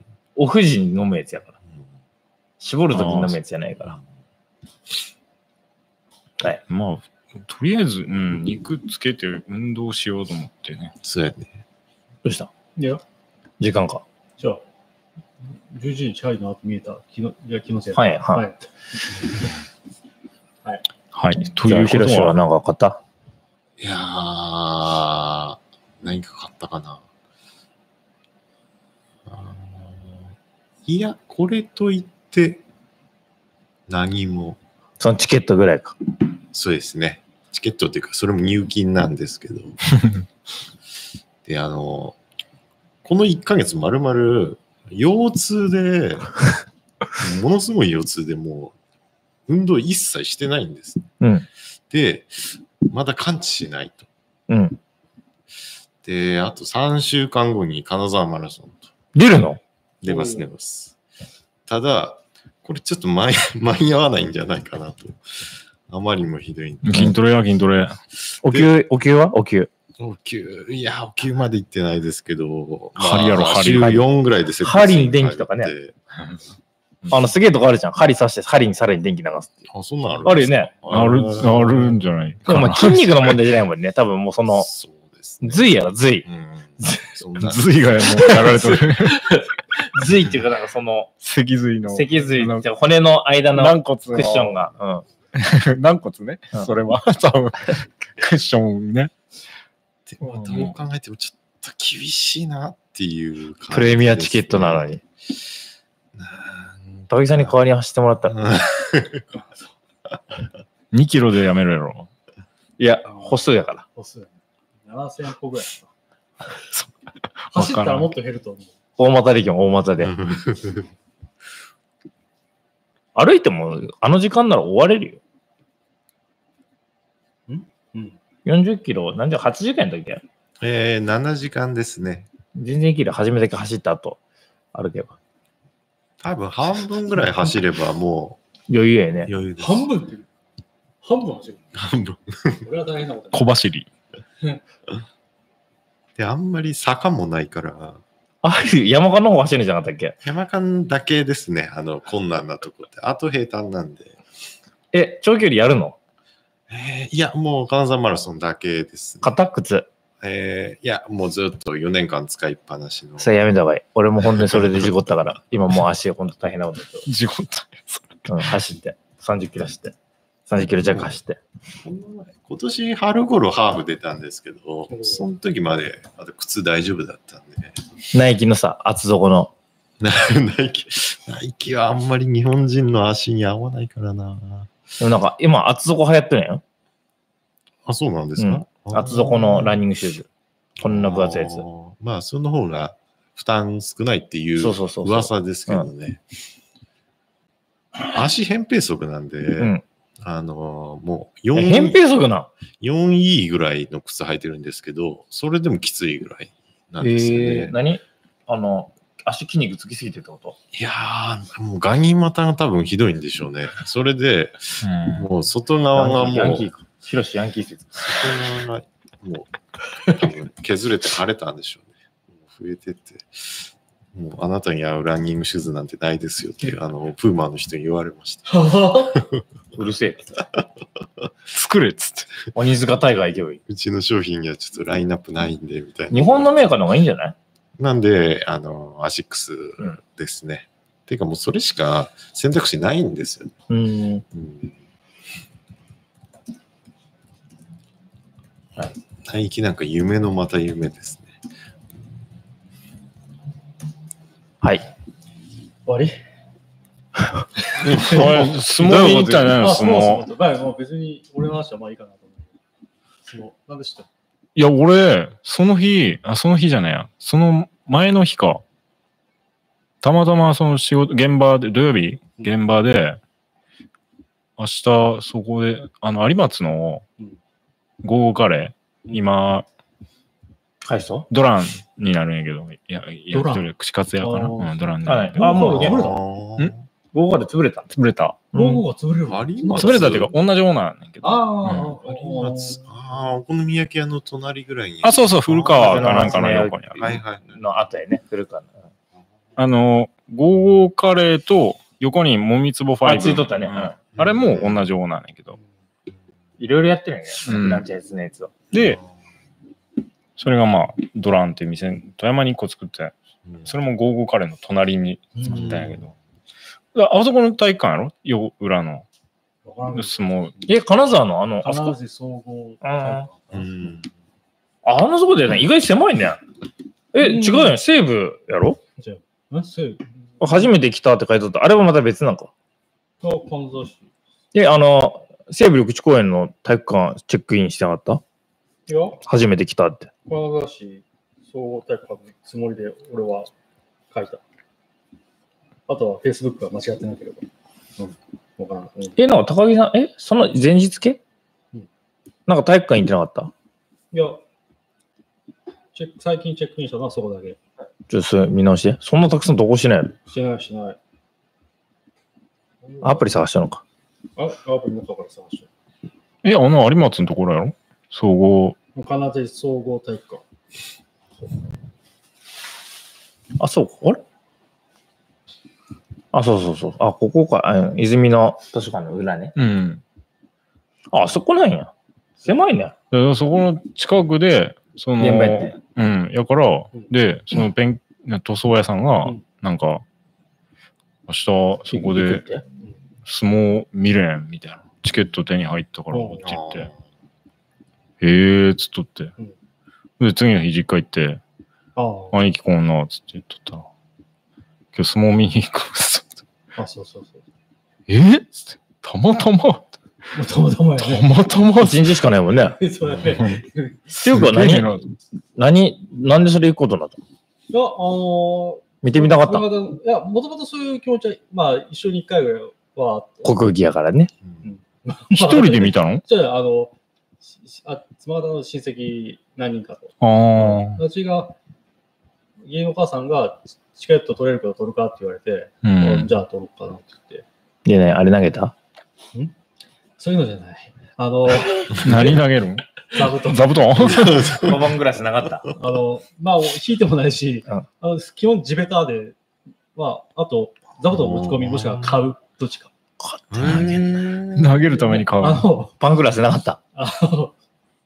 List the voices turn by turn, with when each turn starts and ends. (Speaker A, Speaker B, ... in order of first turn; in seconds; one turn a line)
Speaker A: 0.3-1.5
Speaker A: 2.6-4.0
Speaker B: 2.9-3.4
Speaker B: 6.7-10.9
Speaker C: 11.0-11.5
Speaker A: 12.2-12.5
Speaker D: 12.8-13.0
Speaker A: 13.6-14.0
Speaker D: 15.4-18.7
Speaker A: 17.9-18.5
Speaker B: 21.1-22.4
Speaker A: 21.6-23.0
Speaker C: 23.8-27.0
Speaker C: 29.2-30.3
Speaker C: 30.8-32.6
Speaker C: 33.9-34.6
Speaker A: 35.0-36.0
Speaker C: 36.5-39.8
Speaker C: 41.4-42.2
Speaker C: 43.0-46.4
Speaker C: 47.1-48.7
Speaker C: 49.5-51.1
Speaker A: 51.2-51.5
Speaker C: 51.9-54.1
Speaker A: 54.5-54.8
Speaker C: 56.0-58.9
Speaker A: 59.1-59.6
Speaker C: 60.0-60.9
Speaker D: 60.1-60.4
Speaker C: 61.7-67.2
Speaker B: 66.8-68.0
Speaker A: 68.4-69.7
Speaker C: 68.4-68.7
Speaker C: 70.0-75.9
Speaker B: 73.0-74.0
Speaker A: 74.6-75.7
Speaker A: 77.1-79.6
Speaker C: 79.7-82.0
Speaker A: 80.2-80.7
Speaker B: 80.9-83.3
Speaker A: 82.5-84.7
Speaker C: 84.5-85.7
Speaker A: 85.4-86.3
Speaker C: 86.2-88.5
Speaker A: 86.8-87.1
Speaker B: 87.4-89.3
Speaker A: 89.9-91.1
Speaker B: 91.2-92.7
Speaker A: 91.9-95.0
Speaker B: 93.5-94.6
Speaker B: 95.3-99.1
Speaker C: 100.0-104.9
Speaker B: 100.3-100.7
Speaker A: 103.7-105.0
Speaker C: 106.1-107.5
Speaker A: 107.1-108.4
Speaker C: 108.3-109.2
Speaker B: 110.9-112.1
Speaker A: 112.8-113.8
Speaker D: 113.1-113.4
Speaker D: 113.9-114.3
Speaker D: 114.8-115.9
Speaker B: 117.4-118.1
Speaker D: 117.5-118.7
Speaker A: 119.0-120.1
Speaker C: 120.0-120.9
Speaker A: 123.2-125.2
Speaker D: 127.5-128.2
Speaker A: 128.4-130.2
Speaker C: 130.6-132.3
Speaker A: 132.5-134.2
Speaker A: 134.7-135.1
Speaker C: 136.2-138.4
Speaker A: 138.7-139.3
Speaker C: 139.2-139.9
Speaker D: 139.6-140.3
Speaker D: 141.0-141.7
Speaker C: 141.7-142.7
Speaker D: 142.6-143.5
Speaker B: 143.3-143.9
Speaker C: 146.2-148.0
Speaker A: 148.4-150.2
Speaker C: 150.2-154.2
Speaker A: 154.9-156.0
Speaker C: 156.7-159.3
Speaker A: 159.2-159.9
Speaker C: 160.2-163.3
Speaker A: 163.2-167.1
Speaker C: 164.3-164.9
Speaker B: 167.1-168.2
Speaker A: 168.3-169.9
Speaker A: 170.5-171.4
Speaker C: 170.8-171.1
Speaker C: 171.8-177.8
Speaker D: 174.9-175.2
Speaker A: 178.1-179.5
Speaker C: 180.0-184.7
Speaker A: 185.0-186.6
Speaker C: 187.8-189.8
Speaker A: 188.4-190.3
Speaker A: 190.8-191.6
Speaker C: 190.8-196.2
Speaker A: 194.6-195.9
Speaker C: 198.1-202.0
Speaker A: 201.5-202.5
Speaker C: 202.8-207.8
Speaker A: 207.0-210.6
Speaker C: 210.7-216.7
Speaker B: 214.8-215.3
Speaker A: 215.9-218.3
Speaker C: 218.1-229.4
Speaker D: 228.5-229.2
Speaker A: 229.7-230.3
Speaker B: 231.5-232.3
Speaker A: 232.5-233.6
Speaker C: 233.7-236.5
Speaker A: 236.1-237.3
Speaker C: 237.8-243.5
Speaker A: 243.7-244.2
Speaker C: 244.3-244.7
Speaker C: 249.2-251.3
Speaker D: 255.8-256.2
Speaker D: 257.7-258.4
Speaker C: 257.8-258.5
Speaker B: 257.9-260.2
Speaker A: 258.1-259.6
Speaker D: 259.5-262.5
Speaker D: 263.2-264.1
Speaker B: 264.6-268.6
Speaker B: 270.0-273.2
Speaker B: 274.6-277.0
Speaker B: 278.0-279.6
Speaker A: 280.8-281.3
Speaker B: 281.3-285.7
Speaker D: 283.3-283.7
Speaker D: 284.2-284.7
Speaker A: 285.0-286.1
Speaker D: 285.4-286.2
Speaker C: 285.6-286.9
Speaker A: 287.1-287.9
Speaker B: 287.9-288.4
Speaker A: 288.5-288.8
Speaker D: 288.5-290.3
Speaker C: 289.2-290.3
Speaker B: 289.7-292.0
Speaker D: 291.2-292.8
Speaker C: 291.8-297.6
Speaker B: 295.0-297.1
Speaker A: 295.7-298.7
Speaker B: 299.6-305.6
Speaker A: 303.0-303.9
Speaker C: 304.1-304.9
Speaker A: 306.6-308.5
Speaker B: 307.4-307.9
Speaker B: 308.7-309.0
Speaker B: 310.4-316.1
Speaker D: 315.3-315.9
Speaker C: 315.4-316.1
Speaker B: 316.9-319.1
Speaker D: 319.6-320.8
Speaker B: 319.9-320.5
Speaker A: 320.6-321.9
Speaker D: 321.6-323.9
Speaker A: 322.8-323.3
Speaker C: 323.5-324.1
Speaker A: 324.8-326.4
Speaker A: 327.1-328.8
Speaker D: 327.2-327.8
Speaker D: 329.0-330.7
Speaker A: 330.4-332.5
Speaker D: 333.2-334.1
Speaker A: 334.5-338.2
Speaker D: 338.9-339.2
Speaker A: 339.2-340.1
Speaker D: 340.2-343.5
Speaker D: 344.1-344.4
Speaker D: 345.9-347.4
Speaker D: 348.0-349.2
Speaker A: 349.1-351.2
Speaker A: 352.5-353.5
Speaker D: 354.1-354.4
Speaker D: 355.9-357.6
Speaker A: 358.1-360.1
Speaker D: 360.3-361.0
Speaker D: 362.8-363.3
Speaker A: 363.0-363.8
Speaker D: 364.4-365.7
Speaker B: 366.4-368.8
Speaker D: 368.9-370.4
Speaker A: 373.6-374.2
Speaker A: 376.3-379.5
Speaker B: 379.6-380.0
Speaker A: 381.1-381.9
Speaker A: 382.4-382.9
Speaker B: 383.1-390.0
Speaker A: 385.2-385.8
Speaker B: 391.3-392.4
Speaker A: 391.9-392.6
Speaker B: 393.2-396.9
Speaker D: 396.1-396.5
Speaker C: 396.4-397.0
Speaker B: 398.2-399.3
Speaker B: 400.2-401.4
Speaker D: 401.9-402.4
Speaker B: 402.3-403.9
Speaker B: 404.9-406.3
Speaker D: 406.8-407.4
Speaker B: 408.1-409.9
Speaker D: 410.3-411.2
Speaker B: 411.0-412.1
Speaker A: 411.8-412.8
Speaker D: 412.6-414.1
Speaker B: 413.2-413.6
Speaker A: 414.1-415.0
Speaker B: 414.2-415.1
Speaker A: 415.6-417.2
Speaker D: 417.7-423.5
Speaker A: 419.0-419.7
Speaker A: 423.4-424.3
Speaker D: 424.6-426.9
Speaker B: 425.3-426.2
Speaker D: 427.5-431.6
Speaker B: 430.2-431.0
Speaker D: 432.6-437.4
Speaker B: 435.8-436.3
Speaker A: 437.8-438.7
Speaker D: 440.2-442.4
Speaker B: 441.9-444.6
Speaker D: 443.1-444.3
Speaker C: 443.9-444.9
Speaker A: 444.5-445.7
Speaker D: 445.7-449.4
Speaker D: 449.9-452.9
Speaker C: 451.1-452.2
Speaker A: 453.2-454.0
Speaker C: 453.5-454.8
Speaker B: 454.5-455.7
Speaker D: 455.0-455.9
Speaker A: 456.0-456.8
Speaker D: 456.9-457.5